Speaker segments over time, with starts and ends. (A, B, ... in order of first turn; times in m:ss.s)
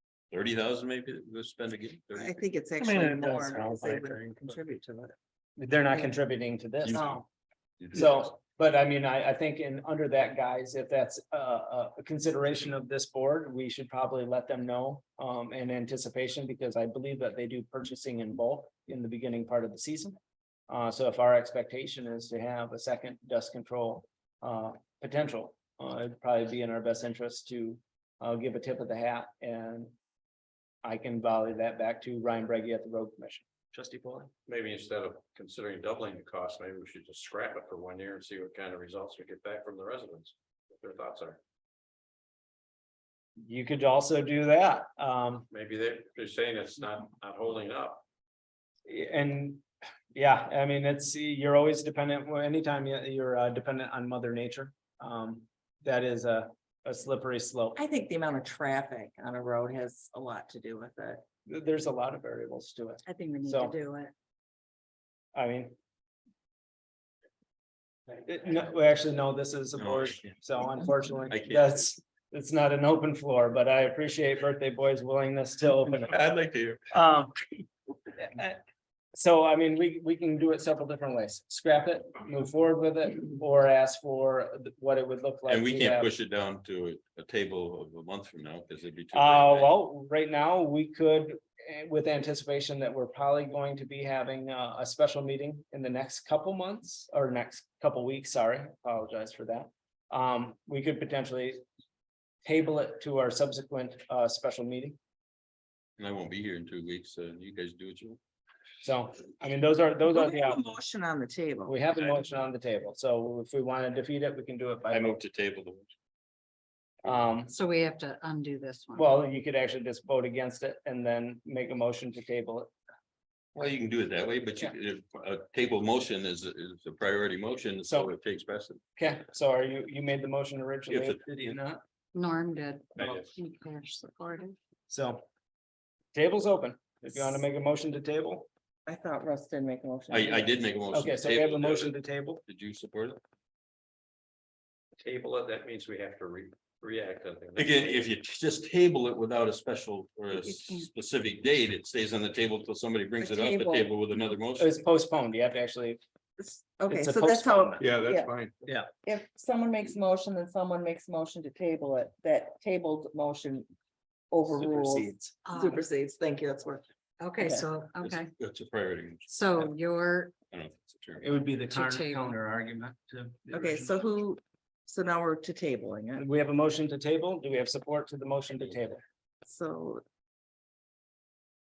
0:00.3-0:02.4 A
0:02.2-0:05.2 B
0:03.2-0:03.6 C
0:05.6-0:07.3 C
0:06.9-0:07.2 A
0:06.9-0:07.2 B
0:07.8-0:08.3 A
0:07.9-0:20.2 C
0:20.7-0:29.9 C
0:30.8-0:34.3 C
0:34.5-0:41.4 D
0:43.4-0:45.5 C
0:45.5-0:48.0 D
0:48.9-0:57.8 C
0:57.8-1:01.2 B
1:01.5-1:03.8 C
1:03.0-1:04.1 B
1:05.4-1:05.7 C
1:08.2-1:16.1 C
1:09.8-1:10.3 A
1:11.3-1:11.7 A
1:15.9-1:16.9 A
1:16.9-1:17.3 C
1:18.2-1:18.6 C
1:19.1-1:26.1 C
1:25.5-1:29.7 A
1:29.1-1:41.6 C
1:42.4-1:45.0 C
1:46.0-1:48.2 A
1:48.8-1:50.6 C
1:50.0-1:51.8 B
1:51.7-1:55.2 C
1:54.9-1:55.9 A
1:57.0-1:57.5 C
1:57.5-1:59.1 E
1:58.9-2:02.7 C
2:03.6-2:08.8 A
2:07.8-2:08.1 C
2:09.0-2:11.8 C
2:10.9-2:11.2 A
2:12.1-2:14.6 E
2:14.9-2:15.2 C
2:16.1-2:18.5 C
2:18.9-2:20.6 B
2:20.1-2:22.0 A
2:20.9-2:22.4 C
2:22.5-2:23.2 A
2:25.0-2:28.0 D
2:27.6-2:34.7 A
2:33.2-2:33.9 B
2:34.6-2:36.0 C
2:36.4-2:38.3 B
2:36.9-2:37.9 C
2:37.8-2:38.5 A
2:38.0-2:38.4 D
2:39.0-2:43.7 B
2:44.3-2:46.9 B
2:44.5-2:45.4 C
2:45.5-2:45.8 E
2:47.2-2:48.3 E
2:47.4-2:47.7 B
2:48.0-2:49.7 A
2:49.3-2:50.4 E
2:50.5-2:51.3 A
2:51.2-2:53.9 C
2:51.6-2:52.4 E
2:53.5-2:56.2 B
2:56.2-2:59.0 C
2:59.4-3:00.0 B